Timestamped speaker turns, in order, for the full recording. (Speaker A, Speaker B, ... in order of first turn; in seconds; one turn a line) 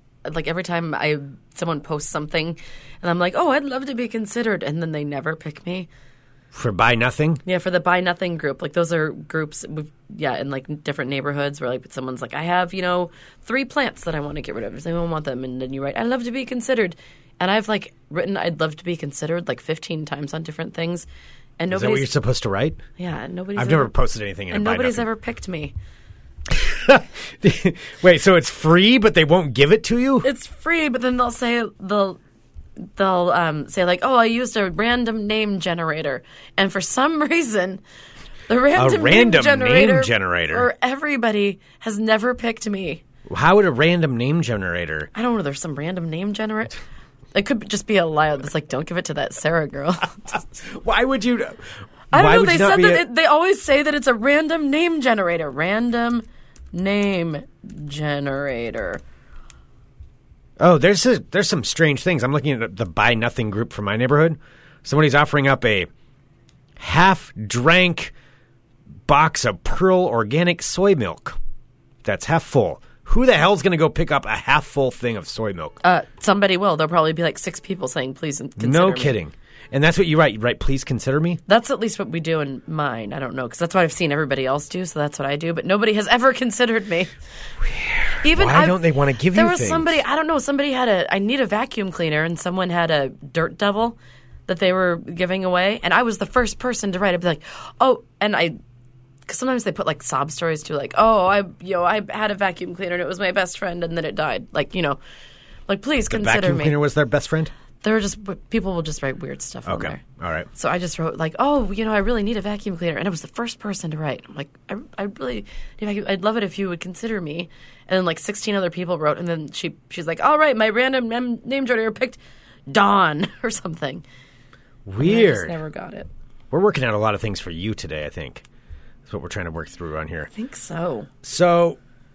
Speaker A: 0.2-5.9
Speaker B: 6.5-7.4
Speaker A: 7.4-21.1
Speaker A: 21.6-22.1
Speaker B: 21.7-22.8
Speaker A: 23.0-23.9
Speaker B: 23.6-25.1
Speaker A: 24.5-25.7
Speaker B: 26.5-30.3
Speaker A: 30.2-32.2
Speaker A: 33.0-37.8
Speaker A: 38.5-43.0
Speaker B: 38.7-40.7
Speaker B: 43.3-45.1
Speaker A: 45.1-46.8
Speaker A: 47.3-50.4
Speaker B: 50.6-53.0
Speaker A: 52.1-59.0
Speaker B: 60.6-65.9
Speaker B: 66.8-68.1
Speaker B: 69.1-71.4
Speaker B: 72.0-75.8
Speaker A: 75.8-79.1
Speaker B: 78.6-81.4
Speaker A: 81.5-87.1
Speaker B: 87.6-90.0
Speaker A: 88.2-98.6
Speaker A: 99.3-105.0
Speaker A: 105.7-106.8
Speaker B: 106.1-107.5
Speaker A: 107.8-110.0
Speaker B: 109.7-110.5
Speaker A: 110.5-124.0
Speaker B: 124.8-125.6
Speaker A: 125.0-126.1
Speaker B: 126.5-128.4
Speaker B: 129.1-130.3
Speaker A: 130.3-131.1
Speaker B: 131.2-131.8